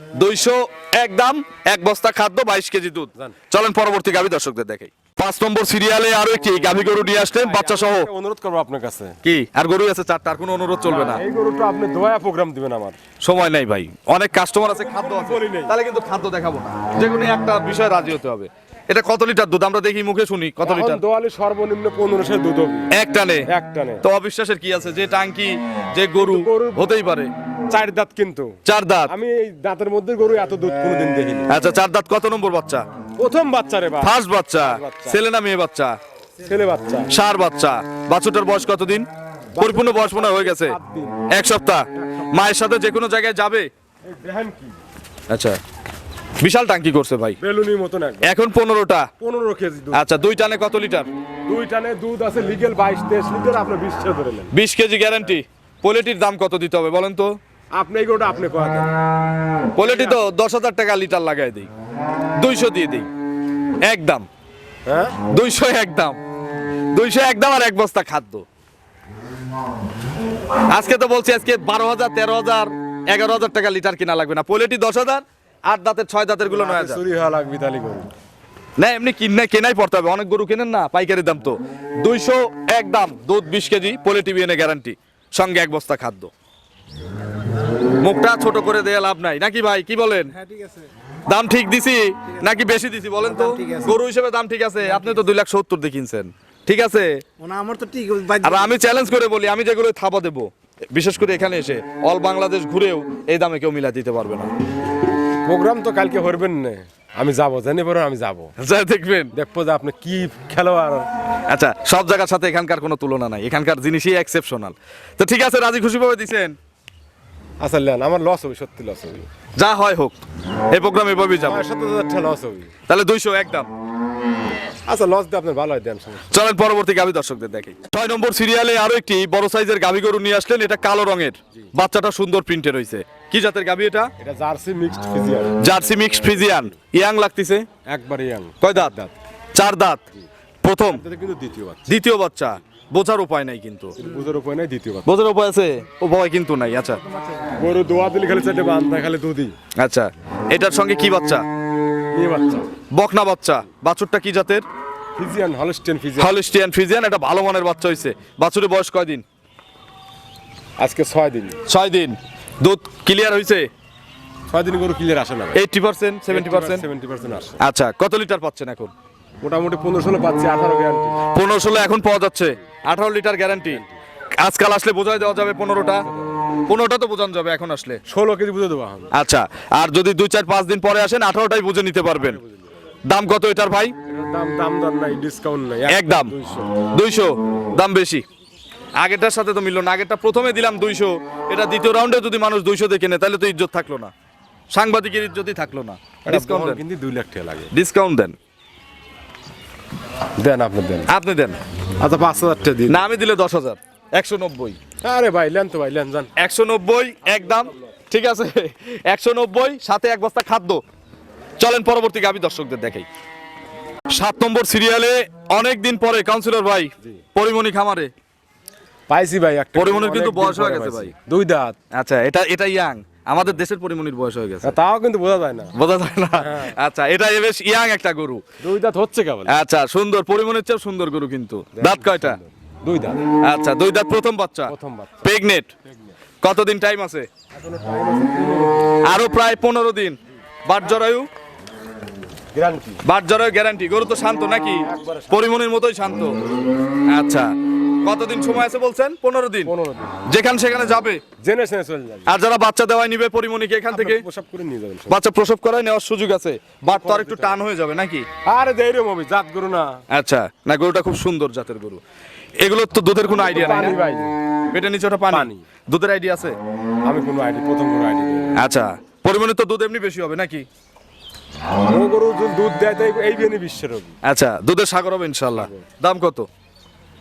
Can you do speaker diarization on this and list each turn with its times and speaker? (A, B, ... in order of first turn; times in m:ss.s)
0:00.2-0:08.1 A
0:06.7-0:09.2 B
0:09.2-0:11.2 A
0:10.9-0:13.0 B
0:13.2-0:21.0 A
0:14.7-0:15.7 B
0:20.6-0:22.9 B
0:22.9-0:23.5 A
0:23.5-0:24.0 B
0:24.0-0:27.3 A
0:26.2-0:26.9 B
0:27.7-0:28.6 B
0:28.6-0:29.1 A
0:29.1-0:31.5 B
0:31.5-0:32.8 A
0:33.2-0:35.2 B
0:34.0-0:36.0 A
0:36.4-0:37.1 B
0:37.1-0:39.1 A
0:39.6-0:41.2 B
0:39.6-0:40.8 A
0:41.3-0:43.7 A
0:41.9-0:42.5 B
0:44.0-0:44.8 B
0:45.3-0:45.6 A
0:46.4-0:47.4 A
0:47.4-0:48.3 B
0:48.2-0:49.1 A
0:49.2-0:50.0 B
0:49.9-0:51.1 A
0:51.5-0:54.5 B
0:54.5-0:57.4 A
0:57.8-0:58.9 B
0:59.7-1:01.7 A
0:59.8-1:00.2 B
1:02.4-1:03.1 A
1:03.8-1:04.3 A
1:04.9-1:05.2 B
1:05.3-1:06.2 A
1:06.9-1:08.4 A
1:10.7-1:17.0 A
1:16.5-1:18.1 B
1:18.8-1:26.3 A
1:28.0-1:30.3 A
1:30.3-1:30.9 C
1:31.3-1:37.1 A
1:33.2-1:34.0 C
1:34.9-1:35.2 C
1:37.4-1:38.8 C
1:38.4-1:44.5 A
1:45.4-1:48.5 B
1:48.6-1:49.3 A
1:49.3-1:51.1 B
1:51.5-1:56.6 A
1:57.6-1:59.3 B
1:59.6-2:01.6 A
2:01.5-2:02.7 B
2:02.9-2:03.7 A
2:04.9-2:06.4 B
2:06.3-2:14.1 A
2:14.2-2:15.6 B
2:15.6-2:17.7 A
2:17.9-2:19.1 B
2:18.6-2:18.9 A
2:19.6-2:20.0 A
2:20.6-2:21.0 A
2:20.8-2:21.9 B
2:21.9-2:24.0 A
2:24.0-2:25.1 B
2:25.1-2:27.0 A
2:27.6-2:29.6 B
2:29.8-2:31.4 A
2:32.2-2:32.7 B
2:33.0-2:34.6 A
2:35.2-2:36.4 B
2:36.2-2:39.2 A
2:40.8-2:41.6 B
2:41.7-2:43.7 A
2:44.5-2:45.6 B
2:45.5-2:46.8 A
2:46.3-2:47.6 B
2:47.6-2:48.9 A
2:49.4-2:51.2 B
2:51.3-2:53.8 A
2:53.7-2:54.0 B
2:54.4-2:56.1 A
2:56.7-2:58.0 A
2:58.1-2:59.1 B
2:59.1-3:02.4 A
3:02.2-3:02.7 B
3:03.1-3:03.9 A
3:04.1-3:06.7 B
3:05.9-3:06.3 A
3:06.9-3:08.2 A
3:09.0-3:14.1 A
3:14.7-3:16.8 A
3:16.2-3:17.7 B
3:17.7-3:18.4 A
3:20.4-3:21.1 B
3:21.1-3:21.6 A
3:22.0-3:23.0 B
3:22.9-3:24.8 A
3:25.0-3:26.3 B
3:26.4-3:30.8 A
3:27.6-3:27.9 B
3:31.6-3:33.1 A
3:34.1-3:38.1 A
3:39.1-3:41.8 B
3:39.8-3:41.1 A
3:41.9-3:44.8 A
3:44.6-3:45.7 B
3:45.8-3:48.4 A
3:46.4-3:46.8 B
3:48.6-3:49.5 B
3:49.5-3:52.4 A
3:51.8-3:53.2 B
3:53.4-3:55.7 A
3:54.7-3:55.2 B
3:55.8-3:56.2 B
3:56.4-3:57.3 A
3:57.5-3:59.0 B
3:59.0-4:01.3 A
4:02.5-4:03.0 B
4:03.0-4:06.3 A
4:04.8-4:05.5 B
4:07.1-4:07.5 A
4:08.0-4:09.7 A
4:09.7-4:10.2 B
4:10.3-4:11.2 A
4:11.4-4:12.4 B
4:12.3-4:14.2 A
4:13.9-4:15.2 B
4:15.1-4:18.3 A
4:16.9-4:17.6 B
4:18.5-4:20.0 B
4:20.1-4:22.0 A
4:22.6-4:24.0 A
4:23.4-4:24.4 B
4:24.7-4:26.6 A
4:25.3-4:25.6 B
4:27.0-4:28.5 B
4:28.6-4:30.7 A
4:31.9-4:34.2 B
4:34.2-4:36.5 A
4:35.6-4:35.8 B